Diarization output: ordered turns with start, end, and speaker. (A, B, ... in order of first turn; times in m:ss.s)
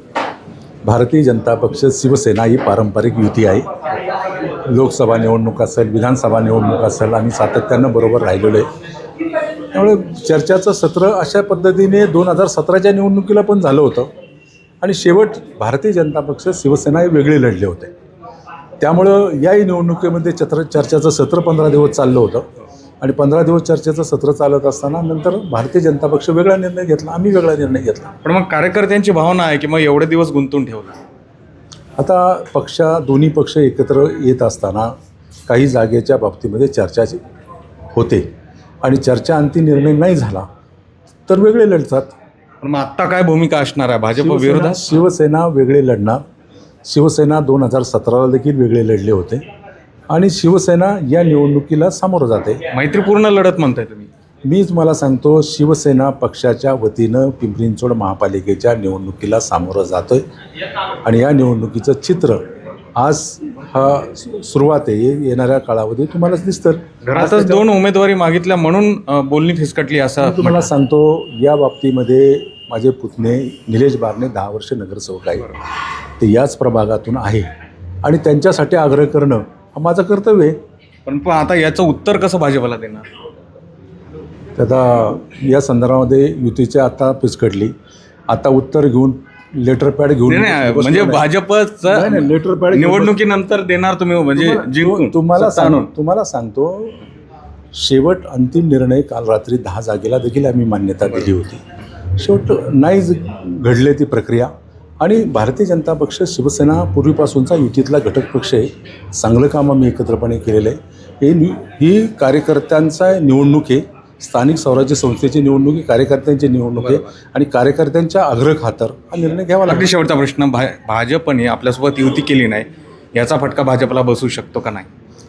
0:00.8-0:03.6 A
0:04.7-0:08.7 A
0:09.7-0:14.1 A
0:14.8-0:17.9 A
0:18.8-0:22.4 A
0:23.0-0:28.1 A
0:28.2-0:31.0 B
0:32.0-0:34.9 A
0:35.5-0:37.2 A
0:37.9-0:38.2 A
0:38.8-0:40.4 A
0:41.3-0:42.1 A
0:42.6-0:45.0 B
0:44.2-0:46.2 A
0:46.8-0:49.4 A
0:50.1-0:52.6 A
0:52.7-0:54.1 B
0:54.4-1:00.2 A
1:01.0-1:02.4 A
1:03.0-1:07.6 A
1:07.0-1:10.7 B
1:10.2-1:15.5 A
1:16.2-1:17.5 A
1:18.0-1:20.6 A
1:21.0-1:23.0 B
1:24.6-1:27.7 A
1:28.3-1:31.2 A
1:30.3-1:35.9 B
1:31.9-1:33.2 A
1:34.3-1:37.0 A
1:37.7-1:41.6 A
1:42.2-1:44.5 A
1:45.0-1:59.9 A
1:56.8-1:57.0 B
1:59.7-2:04.9 B